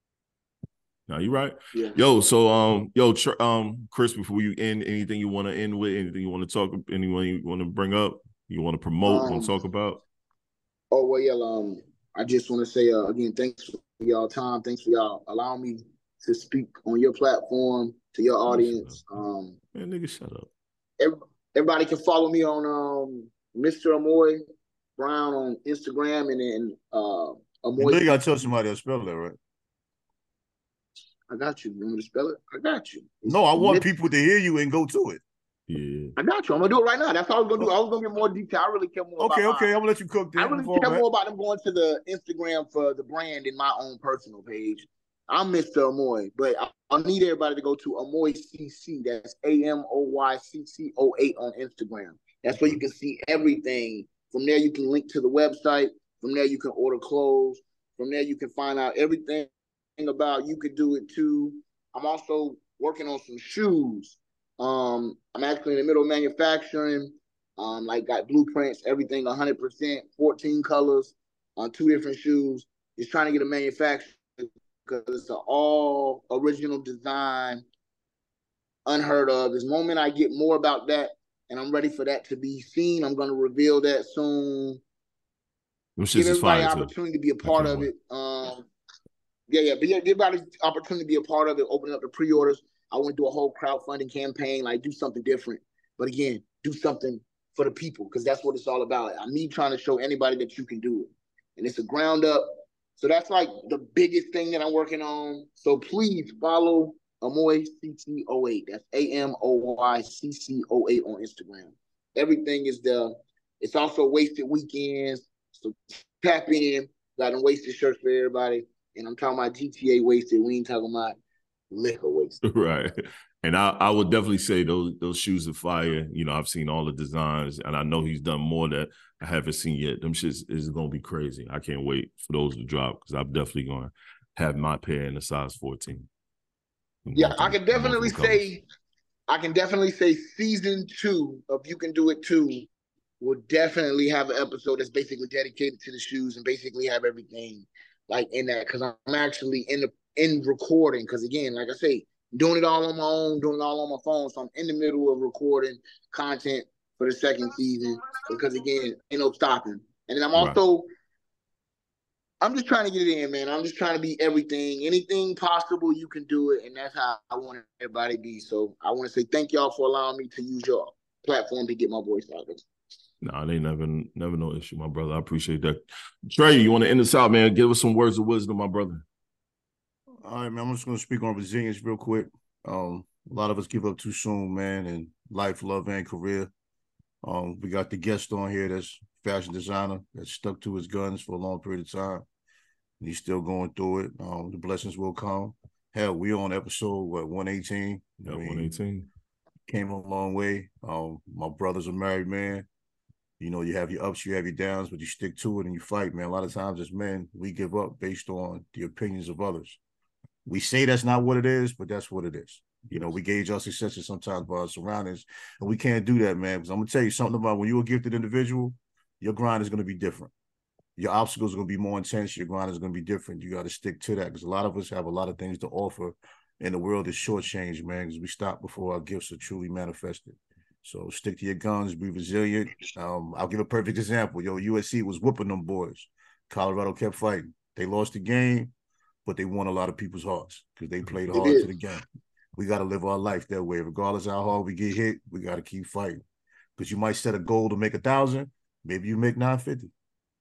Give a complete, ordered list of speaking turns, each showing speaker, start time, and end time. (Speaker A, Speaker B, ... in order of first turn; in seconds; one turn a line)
Speaker A: 1.1-10.0
Speaker B: 9.1-9.5
Speaker B: 10.9-19.6
Speaker A: 18.5-19.1
Speaker A: 19.7-20.5
Speaker B: 21.0-24.4
Speaker B: 25.0-28.5
Speaker C: 27.8-29.4
Speaker B: 31.3-33.9
Speaker C: 33.3-35.2
Speaker A: 35.7-36.1
Speaker B: 36.2-39.7
Speaker C: 39.2-41.0
Speaker B: 40.4-77.6
Speaker B: 78.9-84.8
Speaker A: 86.0-86.9
Speaker B: 86.1-88.7
Speaker A: 87.4-87.9
Speaker B: 89.5-121.2
Speaker B: 121.7-122.4
Speaker A: 122.4-122.9
Speaker A: 123.4-136.1
Speaker A: 137.1-138.4
Speaker B: 137.2-138.6
Speaker B: 139.3-142.7
Speaker B: 143.2-160.9
Speaker B: 162.4-172.7
Speaker A: 173.2-179.0
Speaker C: 180.2-186.5
Speaker C: 187.2-192.2
Speaker C: 193.0-198.7
Speaker A: 198.3-199.1
Speaker C: 199.7-202.7
Speaker C: 203.4-209.8
Speaker C: 210.5-220.3
Speaker C: 221.0-238.7
Speaker C: 239.3-242.0
Speaker B: 241.3-241.7
Speaker C: 242.6-246.2
Speaker C: 246.8-249.9